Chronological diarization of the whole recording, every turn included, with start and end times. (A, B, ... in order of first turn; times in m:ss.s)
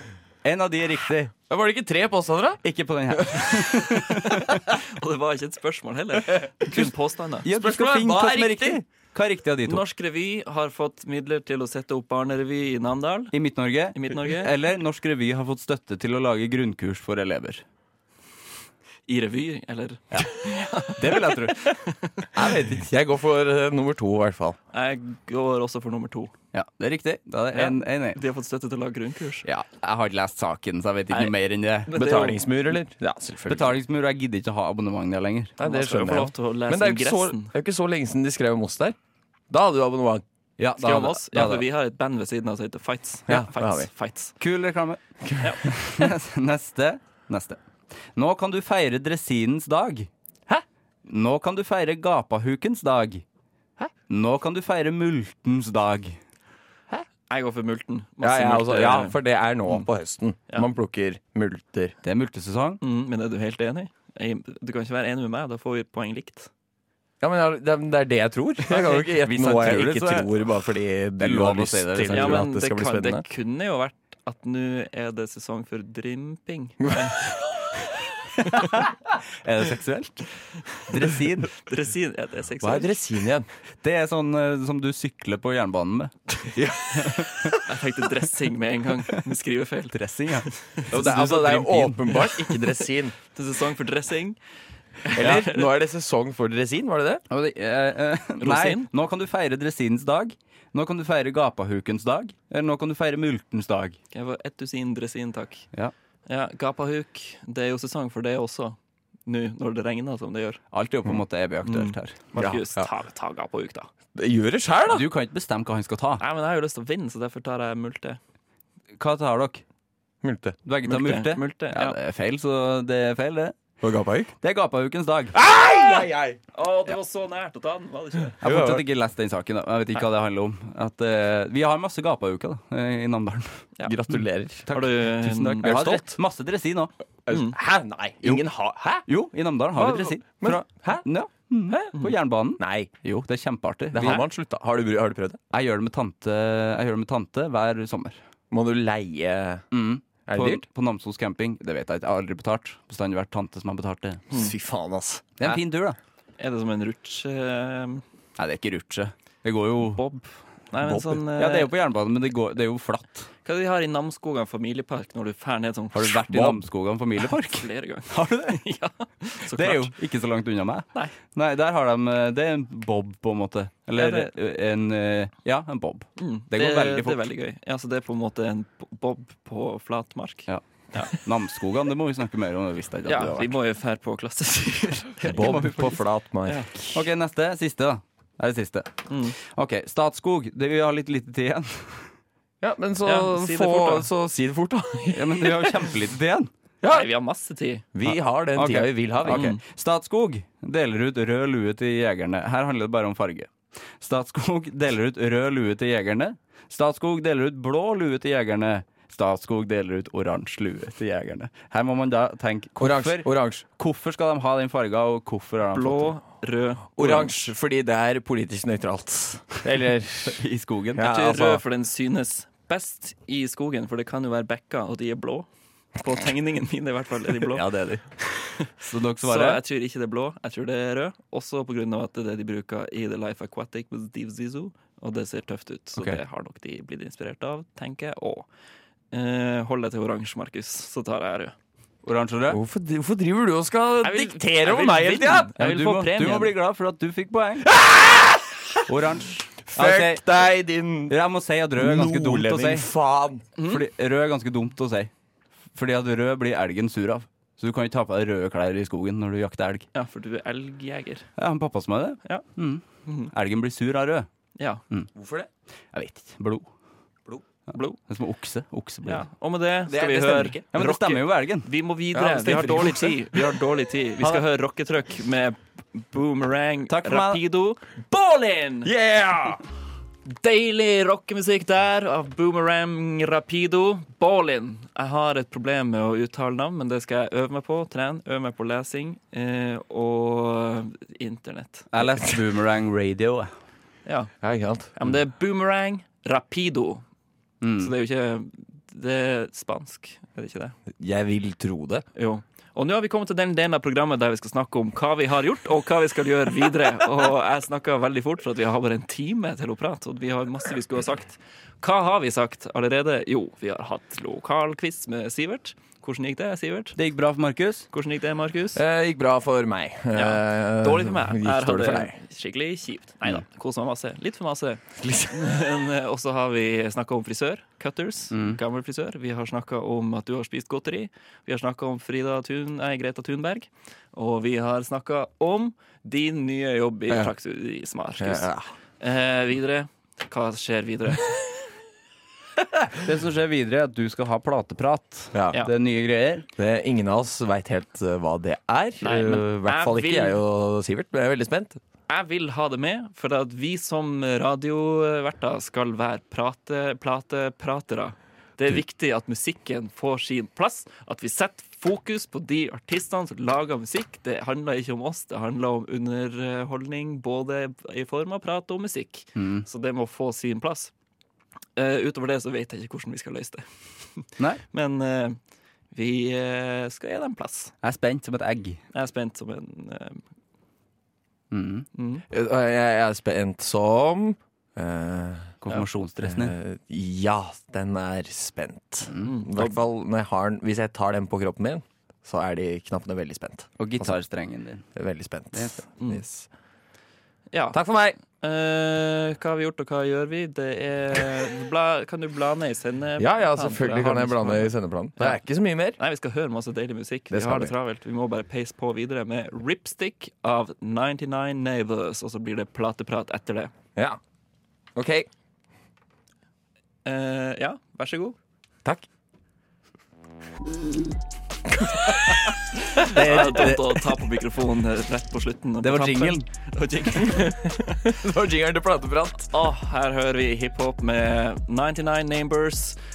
0:00.4-0:01.3 A
0:01.5-0:02.6 B
0:02.6-0:04.7 A
0:03.1-0:03.9 B
0:04.7-0:07.5 C
0:07.4-0:09.8 A
0:07.5-0:08.8 B
0:09.6-0:13.3 C
0:13.3-0:17.6 A
0:13.9-0:14.5 C
0:19.1-0:22.3 C
0:20.8-0:21.9 A
0:22.3-0:24.6 B
0:24.7-0:26.3 C
0:26.5-0:28.2 A
0:27.5-0:29.4 C
0:29.4-0:31.9 A
0:31.9-0:32.4 C
0:31.9-0:33.8 B
0:33.5-0:35.6 A
0:35.6-0:39.0 B
0:35.6-0:37.5 C
0:39.5-0:40.2 B
0:40.6-0:41.6 A
0:40.8-0:44.4 C
0:43.3-0:43.9 B
0:44.4-0:45.0 A
0:45.3-0:45.5 B
0:45.4-0:45.7 C
0:45.6-0:47.6 A
0:48.1-0:50.1 A
0:51.0-0:53.2 A
0:54.1-0:56.2 A
0:57.3-0:59.8 C
0:58.2-1:01.9 B
1:02.0-1:02.8 A
1:02.8-1:06.5 C
1:07.2-1:13.2 B
1:08.7-1:09.2 C
1:09.3-1:10.3 A
1:11.2-1:12.4 A
1:12.1-1:17.3 C
1:18.5-1:21.5 A
1:21.6-1:23.0 C
1:22.6-1:23.5 B
1:23.8-1:26.1 A
1:26.5-1:27.5 B
1:27.6-1:30.0 C
1:29.9-1:32.3 A
1:30.5-1:30.8 C
1:30.9-1:33.2 B
1:33.3-1:34.4 C
1:35.0-1:35.7 C
1:35.1-1:37.2 B
1:37.3-1:44.0 A
1:38.4-1:38.9 C
1:44.1-1:45.7 C
1:46.3-1:50.6 C
1:50.7-1:52.2 A
1:51.6-1:53.9 C
1:52.4-1:52.9 B
1:54.1-1:55.0 B
1:54.9-1:56.2 A
1:56.2-1:58.2 C
1:59.0-1:59.6 A
2:00.2-2:00.6 B
2:00.6-2:03.6 A
2:00.8-2:02.0 C
2:03.8-2:04.3 B
2:04.4-2:05.4 A
2:05.3-2:06.4 B
2:06.5-2:08.4 C
2:08.4-2:08.8 B
2:08.4-2:13.6 A
2:13.8-2:14.7 B
2:14.7-2:15.8 C
2:14.7-2:16.9 A
2:15.6-2:16.2 B
2:17.2-2:19.1 B
2:17.3-2:17.6 C
2:19.0-2:24.2 A
2:19.7-2:21.0 B
2:22.6-2:22.9 B
2:23.9-2:25.4 B
2:25.5-2:28.2 A
2:28.5-2:29.6 B
2:29.7-2:34.2 A
2:30.3-2:30.6 B
2:34.3-2:35.6 B
2:35.4-2:36.0 A
2:36.4-2:38.0 C
2:38.4-2:40.0 A
2:39.9-2:41.7 C
2:41.0-2:43.3 A
2:43.4-2:46.6 C
2:45.9-2:48.6 A
2:47.3-2:49.9 C
2:49.5-2:57.2 A
2:53.9-2:54.3 C
2:56.2-3:01.1 C
3:00.5-3:03.5 A
3:03.0-3:06.7 C
3:05.2-3:07.0 B
3:06.9-3:12.1 A
3:09.1-3:09.3 C
3:12.6-3:15.8 B
3:13.0-3:14.1 C
3:15.1-3:16.5 A
3:16.8-3:17.1 B
3:16.9-3:17.8 C
3:17.9-3:19.5 B
3:18.1-3:36.1 A
3:19.3-3:19.6 C
3:32.8-3:33.6 B
3:35.7-3:37.5 C
3:37.0-3:40.4 B
3:40.3-3:41.1 A
3:40.9-3:41.6 B
3:41.0-3:47.6 C
3:47.5-3:49.6 A
3:49.2-3:58.5 C
3:59.1-4:01.5 C
4:02.0-4:02.6 A
4:02.5-4:05.5 B
4:04.0-4:06.5 C
4:05.6-4:07.7 A
4:07.7-4:08.6 B
4:08.8-4:10.4 A
4:09.7-4:11.2 B
4:11.1-4:12.9 A
4:11.8-4:13.4 B
4:13.6-4:13.8 C
4:13.7-4:15.1 A
4:15.7-4:19.8 A
4:19.9-4:21.3 C
4:21.4-4:24.3 A
4:23.0-4:23.3 C
4:25.1-4:25.5 B
4:25.9-4:26.7 A
4:27.7-4:28.0 C
4:28.0-4:29.2 A
4:29.0-4:38.9 C
4:29.9-4:30.6 B
4:30.7-4:31.7 A
4:32.1-4:33.2 B
4:32.5-4:32.9 A
4:36.9-4:37.4 A
4:38.8-4:39.6 B
4:40.3-4:51.9 C
4:51.9-4:53.5 A
4:54.0-4:54.3 C
4:54.4-4:54.9 B
4:54.9-4:57.0 C
4:57.6-4:57.9 A
4:57.8-5:00.8 C
5:01.0-5:02.0 B
5:02.1-5:17.0 C
5:17.0-5:17.9 A
5:17.9-5:18.8 C
5:18.7-5:22.2 B
5:20.1-5:41.4 C
5:25.0-5:25.8 B
5:28.3-5:28.6 A
5:38.2-5:38.7 B
5:42.9-5:46.5 A
5:45.3-5:45.6 B
5:46.6-5:51.8 B
5:49.0-5:50.4 C
5:52.1-6:10.9 C
6:09.4-6:09.6 A
6:11.8-6:15.4 C
6:15.9-6:17.7 C
6:17.8-6:18.8 A
6:18.9-6:20.2 C
6:21.5-6:21.9 A
6:21.9-6:22.2 C
6:22.3-6:25.6 B
6:25.6-6:26.5 A
6:26.2-6:34.2 B
6:29.2-6:29.7 C
6:33.8-6:34.8 A
6:34.9-6:36.5 B
6:35.5-6:35.8 A
6:37.5-6:45.4 C
6:37.7-6:38.2 B
6:43.2-6:46.0 B
6:46.0-6:53.7 C
6:47.3-6:47.7 B
6:54.9-6:55.3 B
6:57.0-6:58.4 C
7:01.7-7:03.8 B
7:02.9-7:07.8 C
7:03.0-7:04.0 A
7:05.8-7:06.5 A
7:07.3-7:09.5 B
7:09.5-7:13.0 C